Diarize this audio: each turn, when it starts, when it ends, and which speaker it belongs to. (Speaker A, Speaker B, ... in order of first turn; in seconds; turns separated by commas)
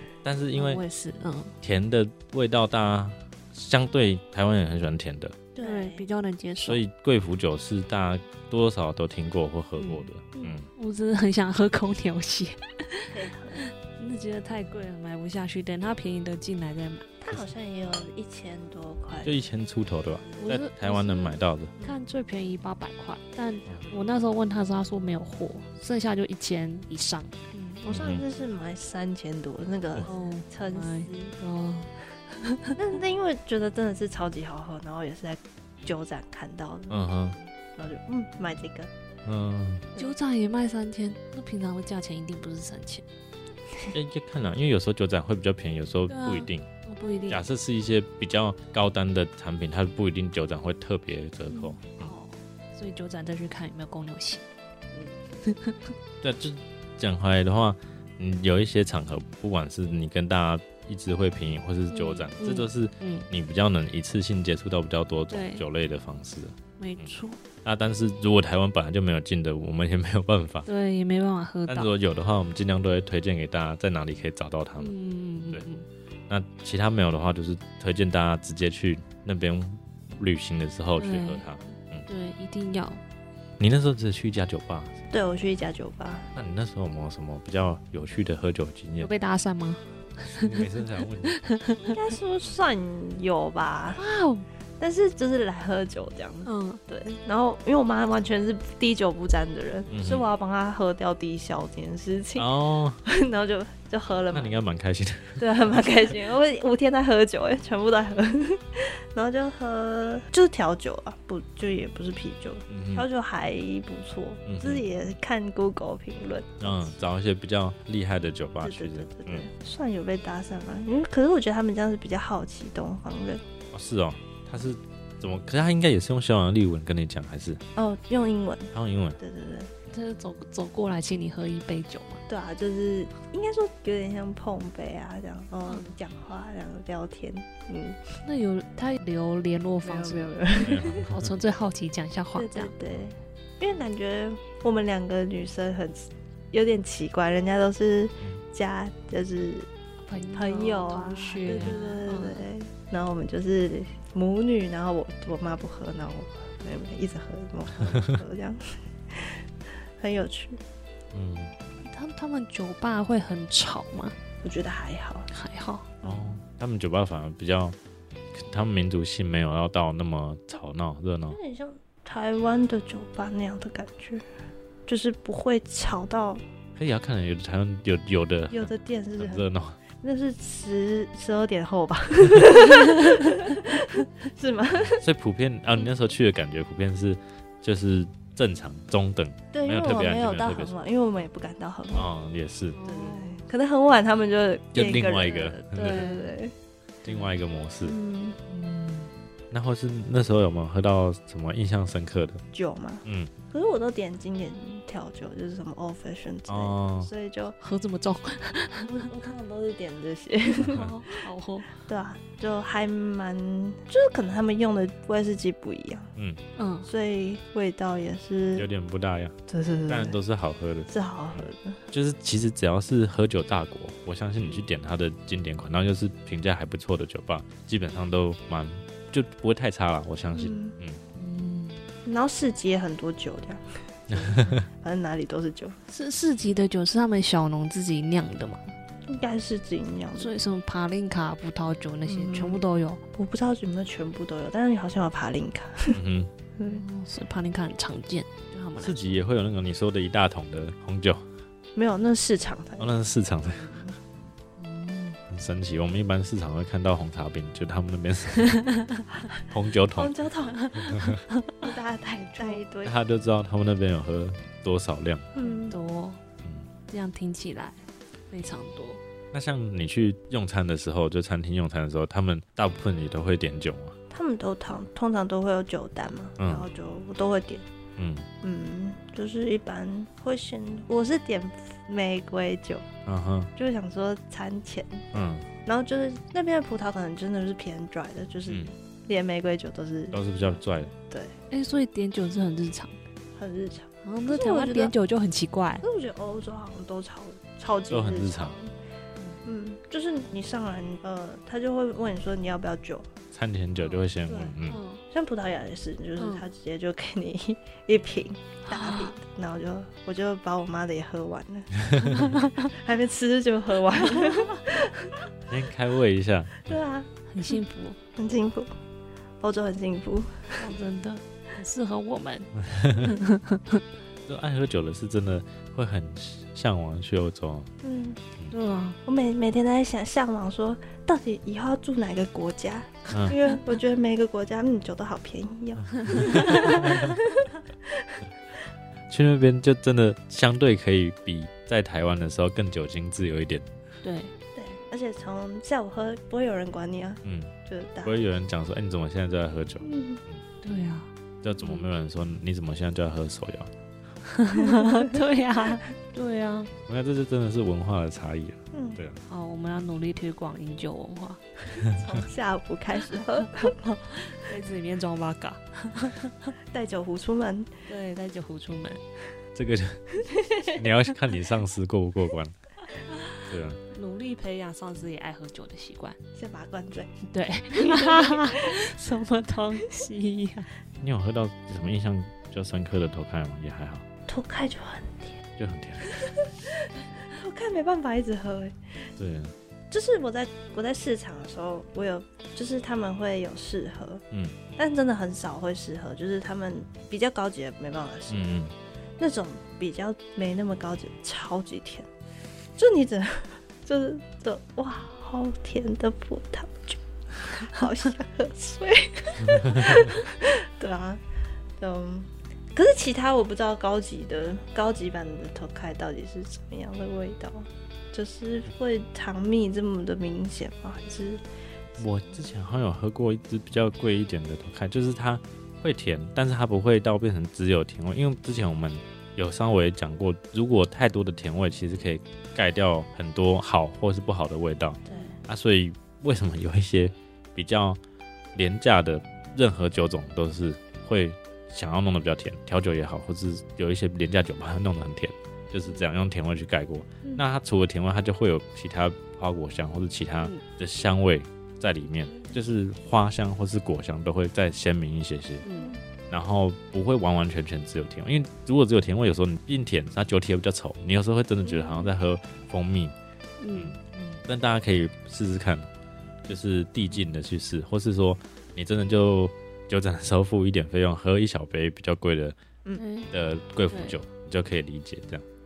Speaker A: 0.2-0.8, Speaker B: 0.5-1.5, Speaker A: 1.6-5.4, Speaker C: 5.5-6.0, Speaker B: 5.6-6.8, Speaker A: 6.7-10.7, Speaker B: 9.8-10.1, Speaker B: 10.7-17.1, Speaker C: 13.1-13.6, Speaker C: 17.2-19.4, Speaker A: 19.2-21.7, Speaker B: 20.4-28.0, Speaker C: 23.5-24.0, Speaker C: 27.8-31.4, Speaker A: 27.9-28.2, Speaker B: 30.1-32.7, Speaker C: 32.7-38.9, Speaker A: 36.9-37.4, Speaker A: 39.2-39.8, Speaker B: 40.0-43.0, Speaker A: 43.9-46.7, Speaker B: 46.1-47.4, Speaker A: 47.3-52.1, Speaker B: 51.5-54.4, Speaker B: 55.4-55.9, Speaker A: 56.2-67.1, Speaker B: 61.9-63.3, Speaker B: 65.3-65.6, Speaker B: 66.8-67.4, Speaker A: 67.6-70.7, Speaker B: 70.7-71.9, Speaker A: 71.7-74.9, Speaker B: 74.8-75.9, Speaker A: 76.3-82.1, Speaker B: 81.0-83.0, Speaker A: 83.6-85.0, Speaker C: 85.1-86.3, Speaker A: 86.3-89.1, Speaker B: 89.0-90.7, Speaker A: 90.3-91.4, Speaker B: 91.2-91.9, Speaker C: 91.8-94.0, Speaker B: 94.0-94.5, Speaker C: 94.8-104.6, Speaker B: 96.4-96.8, Speaker A: 99.9-100.3, Speaker A: 102.4-103.0, Speaker A: 104.3-105.4, Speaker C: 105.4-116.9, Speaker A: 112.7-113.0, Speaker A: 114.5-114.9, Speaker A: 116.6-119.5, Speaker C: 118.6-123.4, Speaker A: 123.7-127.6, Speaker C: 127.8-129.7, Speaker A: 128.7-129.2, Speaker B: 129.9-132.2, Speaker C: 132.3-138.2, Speaker B: 138.2-140.3, Speaker C: 139.8-141.1, Speaker A: 140.6-141.3, Speaker B: 141.1-142.7, Speaker C: 142.3-149.7, Speaker B: 150.1-152.4, Speaker C: 150.3-159.4, Speaker A: 157.9-158.2, Speaker C: 160.0-160.6, Speaker A: 161.1-161.5, Speaker B: 161.8-164.2, Speaker C: 164.4-165.3, Speaker B: 165.3-165.9, Speaker A: 166.0-167.8, Speaker A: 168.3-171.4, Speaker C: 171.3-174.3, Speaker C: 174.9-176.4, Speaker A: 176.8-179.8, Speaker C: 178.5-179.4, Speaker C: 180.0-185.0, Speaker A: 185.0-190.7, Speaker C: 189.5-192.1, Speaker A: 191.9-192.8, Speaker B: 192.7-193.4, Speaker C: 192.8-196.5, Speaker A: 194.7-196.1, Speaker B: 195.8-196.3, Speaker A: 197.0-197.9, Speaker C: 197.8-198.4, Speaker B: 198.5-199.1, Speaker A: 199.5-202.4, Speaker C: 202.5-207.6, Speaker A: 203.0-203.3, Speaker A: 206.5-207.1, Speaker B: 207.6-209.0, Speaker C: 208.9-211.2, Speaker B: 210.6-211.8, Speaker C: 211.7-216.1, Speaker B: 216.6-216.9, Speaker C: 216.9-218.7, Speaker A: 218.6-219.3, Speaker C: 219.5-220.2, Speaker A: 219.9-231.0, Speaker C: 220.9-221.8, Speaker C: 230.3-230.7, Speaker B: 231.1-231.9, Speaker C: 232.1-235.8, Speaker A: 234.1-234.7, Speaker B: 235.9-238.7, Speaker C: 239.1-240.3, Speaker B: 240.2-243.0, Speaker C: 242.1-242.6, Speaker C: 243.1-246.0, Speaker A: 245.9-246.3, Speaker B: 246.6-249.1, Speaker A: 248.8-251.3, Speaker C: 251.7-254.0, Speaker A: 252.8-253.8, Speaker B: 254.6-255.2, Speaker A: 255.3-258.5, Speaker B: 258.4-259.1, Speaker A: 259.5-260.1, Speaker C: 259.9-260.7, Speaker B: 260.5-261.7, Speaker C: 261.6-262.9, Speaker A: 262.8-265.3, Speaker C: 265.4-265.8, Speaker B: 265.4-266.2, Speaker B: 266.9-269.0, Speaker A: 269.3-273.9, Speaker C: 274.1-277.6, Speaker A: 276.4-276.7, Speaker A: 278.0-278.3, Speaker C: 278.4-282.9, Speaker A: 283.1-283.5, Speaker C: 283.6-290.5, Speaker A: 285.1-285.5, Speaker A: 288.5-288.7, Speaker A: 290.1-290.9, Speaker C: 291.1-291.4, Speaker B: 291.5-292.9, Speaker C: 293.4-294.9, Speaker B: 294.0-295.8, Speaker C: 295.8-298.7, Speaker A: 297.9-298.6, Speaker B: 299.2-299.4, Speaker C: 299.4-303.1, Speaker A: 303.3-304.8, Speaker C: 304.2-304.6, Speaker B: 304.7-305.0, Speaker C: 305.1-315.3, Speaker B: 306.2-306.4, Speaker B: 308.6-309.1, Speaker A: 311.8-312.2, Speaker B: 312.0-312.7, Speaker B: 314.1-314.4, Speaker A: 315.5-316.8, Speaker C: 316.7-317.1, Speaker B: 317.3-318.0, Speaker C: 318.1-318.7, Speaker C: 319.4-320.7, Speaker B: 320.6-323.8, Speaker A: 322.6-323.1, Speaker A: 324.2-327.7, Speaker C: 327.8-328.2, Speaker B: 328.5-329.0, Speaker C: 329.1-338.2, Speaker A: 333.1-333.4, Speaker B: 336.1-337.0, Speaker A: 336.1-337.1, Speaker A: 339.1-343.7, Speaker B: 344.0-344.3, Speaker C: 344.6-348.2, Speaker A: 347.2-347.5, Speaker A: 348.0-350.4, Speaker C: 349.8-350.2, Speaker B: 350.6-351.1, Speaker A: 351.4-353.7, Speaker B: 354.2-356.7, Speaker C: 354.7-355.1, Speaker A: 356.9-359.2, Speaker C: 358.7-359.0, Speaker B: 359.3-361.4, Speaker C: 361.8-363.8, Speaker B: 363.5-366.5, Speaker C: 366.7-367.8, Speaker B: 367.9-369.0, Speaker A: 369.5-372.5, Speaker C: 370.2-370.8, Speaker A: 373.4-373.8, Speaker B: 373.9-376.2, Speaker C: 376.4-377.2, Speaker B: 377.3-380.7, Speaker C: 377.7-378.6, Speaker A: 381.0-384.0, Speaker C: 384.3-385.4, Speaker A: 385.6-386.2, Speaker C: 386.0-388.8, Speaker A: 389.2-389.5, Speaker C: 389.9-394.2, Speaker A: 394.3-394.6, Speaker C: 394.8-398.4, Speaker A: 398.3-398.7, Speaker C: 399.2-402.1, Speaker C: 402.8-411.2, Speaker C: 411.8-421.4, Speaker A: 422.0-438.0, Speaker C: 435.1-435.4, Speaker A: 438.5-455.6, Speaker B: 455.6-455.9, Speaker C: 455.7-456.0, Speaker A: 456.3-463.1, Speaker C: 461.6-462.1, Speaker B: 463.6-464.4, Speaker A: 463.7-465.9, Speaker A: 466.5-472.6, Speaker B: 472.9-473.3, Speaker A: 473.3-475.4, Speaker B: 473.9-474.2